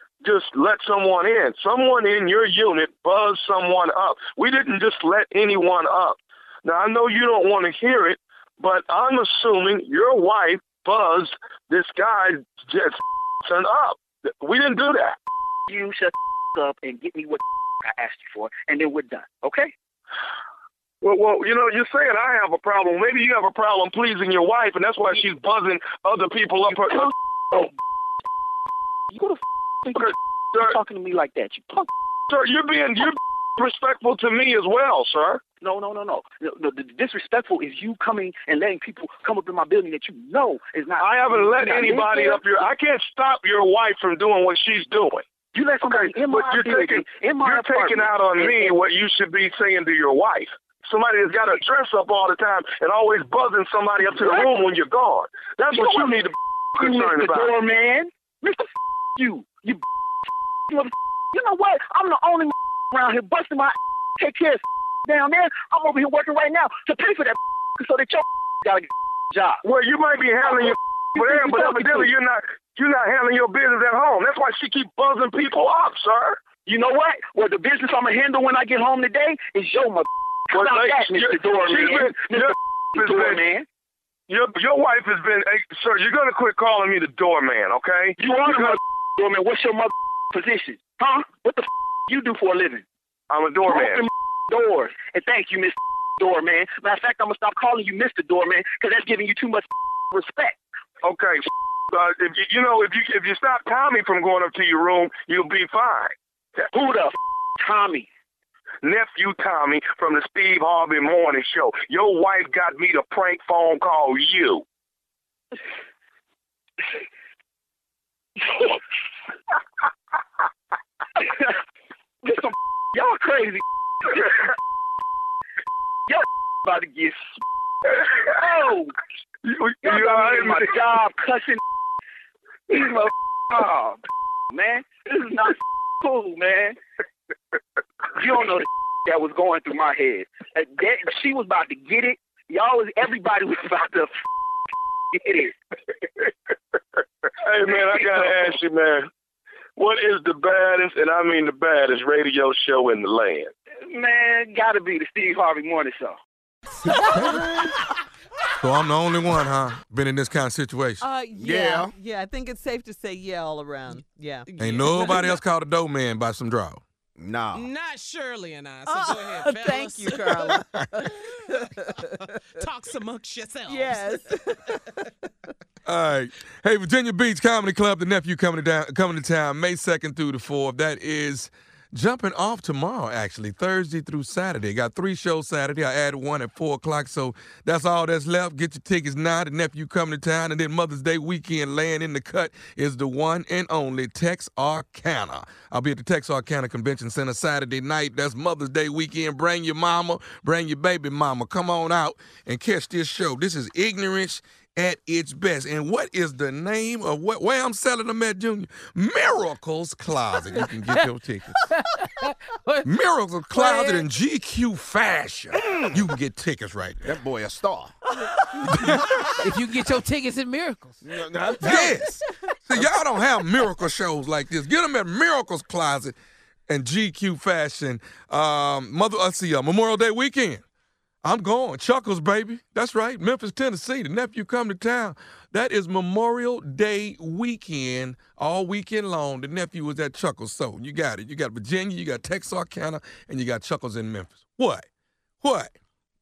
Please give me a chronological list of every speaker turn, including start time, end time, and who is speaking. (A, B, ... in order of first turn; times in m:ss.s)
0:00.2-0:15.2 A
0:15.7-0:19.7 B
0:21.0-0:27.1 A
0:27.0-0:27.7 B
0:29.1-0:31.9 B
0:29.9-0:30.7 A
0:32.3-0:35.4 A
0:35.6-0:42.4 B
0:41.0-0:45.2 A
0:45.5-0:48.8 B
0:45.8-0:57.5 A
0:54.0-0:54.5 B
0:55.8-0:59.8 B
1:00.7-1:09.6 B
1:09.6-1:16.5 A
1:10.4-1:12.1 B
1:16.6-1:23.6 B
1:20.5-1:23.4 A
1:24.3-1:28.8 A
1:28.2-1:32.8 B
1:33.3-1:34.0 A
1:33.6-1:40.6 B
1:41.0-1:46.1 A
1:46.6-1:48.1 B
1:48.8-1:54.6 A
1:58.4-1:58.8 B
2:01.2-2:01.6 B
2:02.2-2:04.5 B
2:06.1-2:07.3 B
2:07.9-2:08.9 B
2:09.4-2:10.8 A
2:09.8-2:11.6 B
2:12.7-2:16.8 B
2:18.1-2:24.2 B
2:25.1-2:25.5 B
2:27.4-2:29.1 A
2:27.6-2:28.5 B
2:29.8-2:33.5 A
2:33.8-2:36.2 B
2:36.8-2:37.7 C
2:38.6-2:41.0 D
2:41.0-2:45.3 C
2:41.3-2:41.9 E
2:44.5-2:45.3 F
2:44.6-2:46.8 D
2:47.2-2:47.7 E
2:47.5-2:51.7 F
2:48.8-2:52.2 C
2:52.2-2:54.2 F
2:53.6-2:55.3 C
2:55.8-3:31.6 D
3:31.6-3:32.9 G
3:32.8-3:37.1 D
3:33.5-3:34.1 G
3:37.0-3:37.9 E
3:38.1-3:38.7 C
3:38.6-3:39.1 D
3:39.4-3:41.0 G
3:41.0-3:42.2 E
3:41.6-3:46.1 D
3:41.6-3:42.0 C
3:46.7-3:50.6 D
3:51.2-4:04.8 D
4:05.4-4:05.7 D